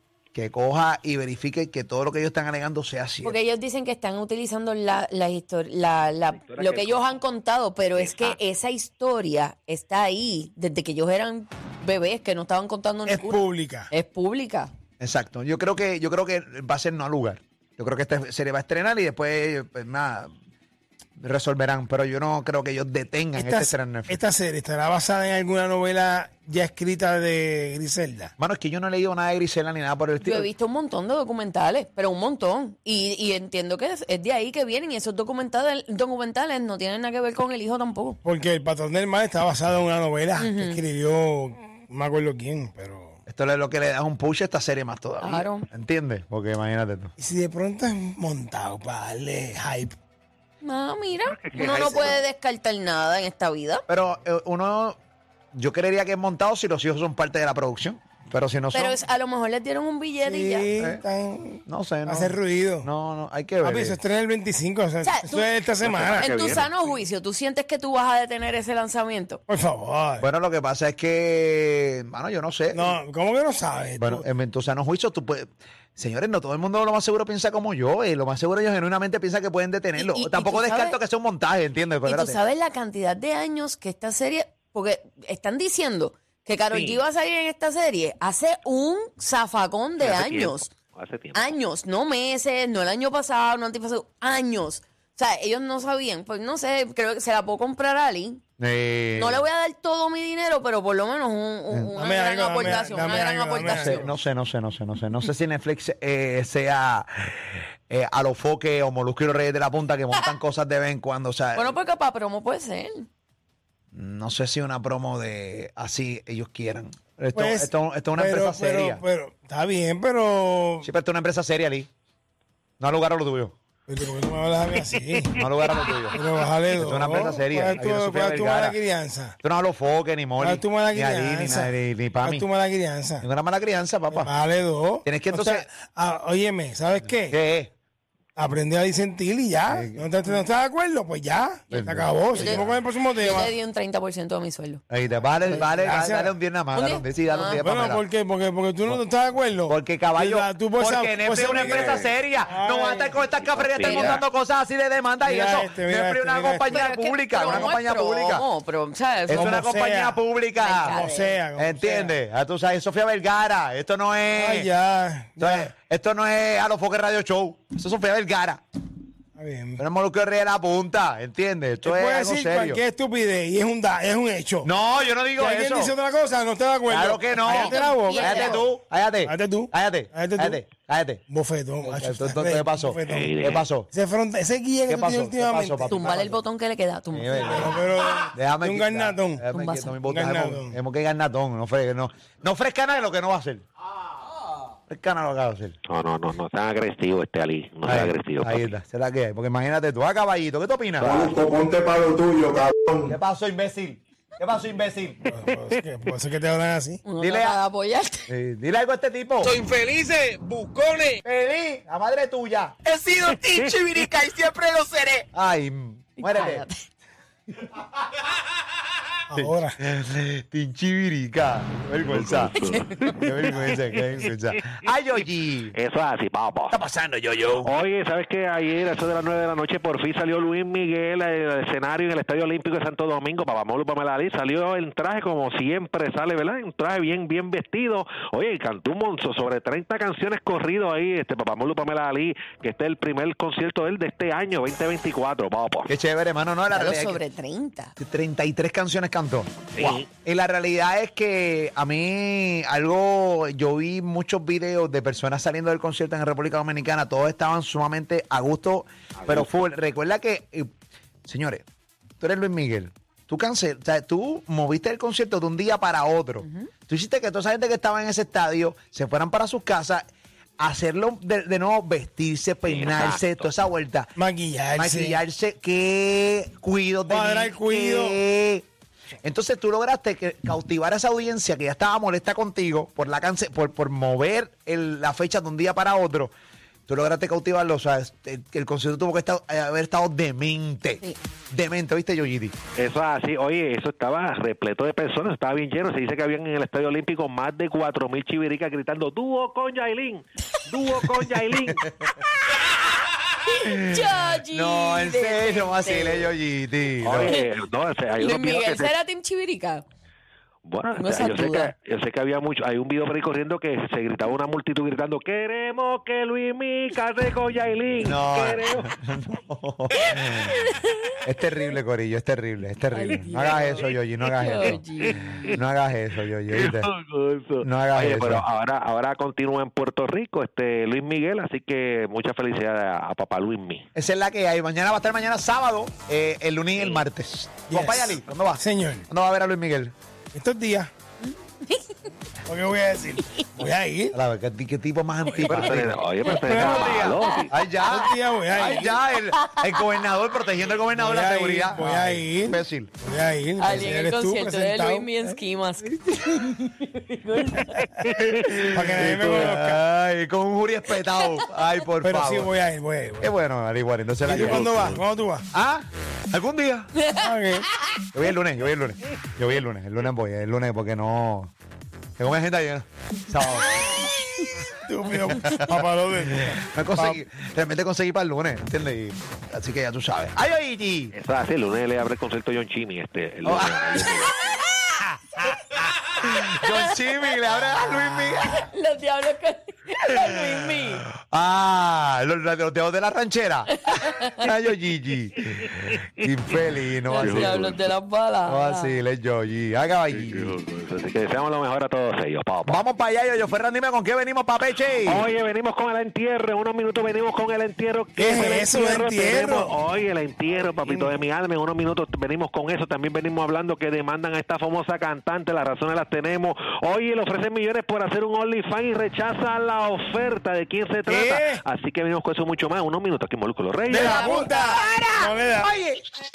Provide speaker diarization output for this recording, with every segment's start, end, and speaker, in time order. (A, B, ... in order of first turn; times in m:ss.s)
0:00.3-0:03.4 A
0:03.2-0:14.7 B
0:06.4-0:07.2 C
0:07.9-0:08.4 C
0:13.1-0:13.9 D
0:15.0-0:20.3 A
0:21.2-0:24.2 A
0:23.4-0:28.3 D
0:28.4-0:30.5 A
0:30.2-0:38.2 B
0:38.2-0:43.2 D
0:40.4-0:40.8 B
0:43.3-0:47.1 A
0:45.2-0:45.7 B
0:47.2-0:49.9 D
0:50.6-0:53.8 B
0:51.2-0:52.0 C
0:51.6-0:52.2 A
0:53.9-0:55.0 A
0:55.5-0:59.0 A
0:58.7-1:00.7 B
1:00.2-1:02.9 D
1:01.7-1:04.0 A
1:03.6-1:06.3 D
1:05.0-1:05.5 B
1:05.8-1:06.7 C
1:06.2-1:09.4 B
1:09.5-1:10.2 D
1:10.2-1:13.0 A
1:12.7-1:14.2 D
1:14.0-1:22.4 A
1:20.0-1:21.0 B
1:22.0-1:30.7 B
1:26.7-1:27.0 C
1:30.0-1:31.6 C
1:31.3-1:38.4 B
1:38.6-1:39.4 A
1:39.2-1:44.1 B
1:41.7-1:41.9 A
1:42.0-1:44.0 D
1:43.6-1:51.8 A
1:51.5-1:53.1 B
1:53.9-1:59.0 A
1:57.3-2:00.9 D
2:00.8-2:01.9 A
2:02.8-2:03.5 A
2:03.9-2:05.3 D
2:05.4-2:06.2 A
2:06.1-2:09.4 D
2:06.7-2:08.8 A
2:09.4-2:12.5 A
2:10.4-2:11.7 D
2:12.2-2:13.2 D
2:13.2-2:14.3 A
2:14.1-2:17.4 D
2:15.0-2:15.7 A
2:17.3-2:17.7 A
2:18.4-2:23.5 D
2:19.7-2:20.1 A
2:21.7-2:22.8 A
2:22.3-2:22.6 B
2:23.2-2:24.8 B
2:24.9-2:28.0 A
2:25.5-2:26.3 D
2:26.7-2:27.6 B
2:27.6-2:33.2 D
2:29.7-2:38.5 A
2:33.4-2:34.1 C
2:33.8-2:34.2 B
2:35.2-2:36.8 D
2:36.7-2:39.6 B
2:39.3-2:41.0 A
2:39.3-2:40.2 D
2:40.6-2:41.4 B
2:40.8-2:42.1 D
2:41.6-2:44.7 A
2:44.3-2:45.6 D
2:45.4-2:48.6 A
2:49.4-2:49.8 D
2:49.8-2:52.8 A
2:51.8-2:54.7 D
2:54.6-2:55.9 A
2:55.4-2:58.6 D
2:56.9-3:01.2 A
2:57.4-2:58.6 B
2:59.2-3:00.6 D
3:01.3-3:06.0 D
3:01.8-3:03.9 A
3:03.1-3:03.6 C
3:04.9-3:06.4 A
3:05.9-3:07.8 B
3:07.1-3:07.8 A
3:07.4-3:09.4 D
3:08.3-3:13.6 A
3:09.5-3:09.9 B
3:10.0-3:10.8 D
3:14.9-3:15.8 A
3:15.9-3:18.8 C
3:17.8-3:21.3 A
3:21.0-3:21.3 C
3:21.0-3:23.1 E
3:23.0-3:25.2 A
3:25.3-3:27.0 D
3:27.0-3:28.3 B
3:27.2-3:27.6 A
3:28.3-3:29.6 A
3:29.6-3:31.1 E
3:29.7-3:30.7 F
3:31.2-3:32.8 A
3:32.9-3:35.2 F
3:33.3-3:34.1 C
3:35.3-3:36.6 A
3:36.2-3:36.9 B
3:39.3-3:39.8 D
3:39.3-3:42.6 A
3:42.1-3:43.5 C
3:42.6-3:43.2 B
3:43.1-3:45.7 A
3:45.7-3:46.8 C
3:46.7-3:47.7 A
3:47.6-4:05.9 C
4:05.9-4:07.2 A
4:06.7-4:07.9 B
4:08.0-4:20.7 A
4:09.7-4:10.1 C
4:19.2-4:19.5 C
4:21.2-4:21.6 A
4:22.2-4:30.1 A
4:26.4-4:26.7 B
4:30.6-4:34.1 A
4:32.6-4:33.5 C
4:34.2-4:35.2 D
4:34.8-4:38.6 A
4:37.1-4:38.2 D
4:39.2-4:46.3 A
4:46.9-4:52.5 A
4:52.8-5:01.8 C
5:01.5-5:01.8 A
5:03.4-5:06.3 B
5:03.6-5:07.3 A
5:07.0-5:08.9 C
5:08.2-5:09.8 B
5:10.6-5:18.9 C
5:11.0-5:11.7 B
5:18.0-5:20.6 A
5:20.1-5:21.1 B
5:21.2-5:24.8 A
5:22.9-5:25.2 B
5:24.6-5:25.6 C
5:25.4-5:26.9 A
5:26.5-5:33.8 C
5:27.6-5:28.4 A
5:33.9-5:39.9 A
5:37.7-5:39.0 D
5:40.3-5:40.9 D
5:41.2-5:42.0 B
5:42.4-5:44.1 D
5:44.1-5:52.9 A
5:45.3-5:47.5 C
5:46.3-5:47.0 D
5:47.1-5:47.4 B
5:47.8-5:49.0 D
5:49.4-5:49.7 B
5:51.0-5:55.1 D
5:53.6-5:58.1 B
5:57.8-5:58.7 C
5:58.2-6:02.5 A
5:58.6-5:59.8 D
6:01.0-6:01.4 B
6:02.0-6:03.3 D
6:03.2-6:05.0 A
6:04.2-6:05.4 D
6:05.5-6:06.9 A
6:07.0-6:07.3 B
6:07.1-6:07.7 D
6:08.1-6:11.5 A
6:12.2-6:14.1 A
6:13.7-6:14.1 B
6:14.7-6:17.2 D
6:15.3-6:21.1 A
6:21.1-6:24.3 C
6:23.4-6:24.3 A
6:26.0-6:28.7 A
6:28.1-6:31.0 B
6:31.1-6:37.8 A
6:33.7-6:34.5 B
6:37.1-6:39.0 B
6:37.2-6:37.7 C
6:38.4-6:40.5 A
6:40.1-6:42.8 C
6:42.6-6:45.3 A
6:45.0-7:04.2 C
6:48.2-6:49.7 D
7:01.1-7:01.6 D
7:03.9-7:05.7 D
7:03.9-7:04.7 B
7:03.9-7:05.1 A
7:05.6-7:06.0 A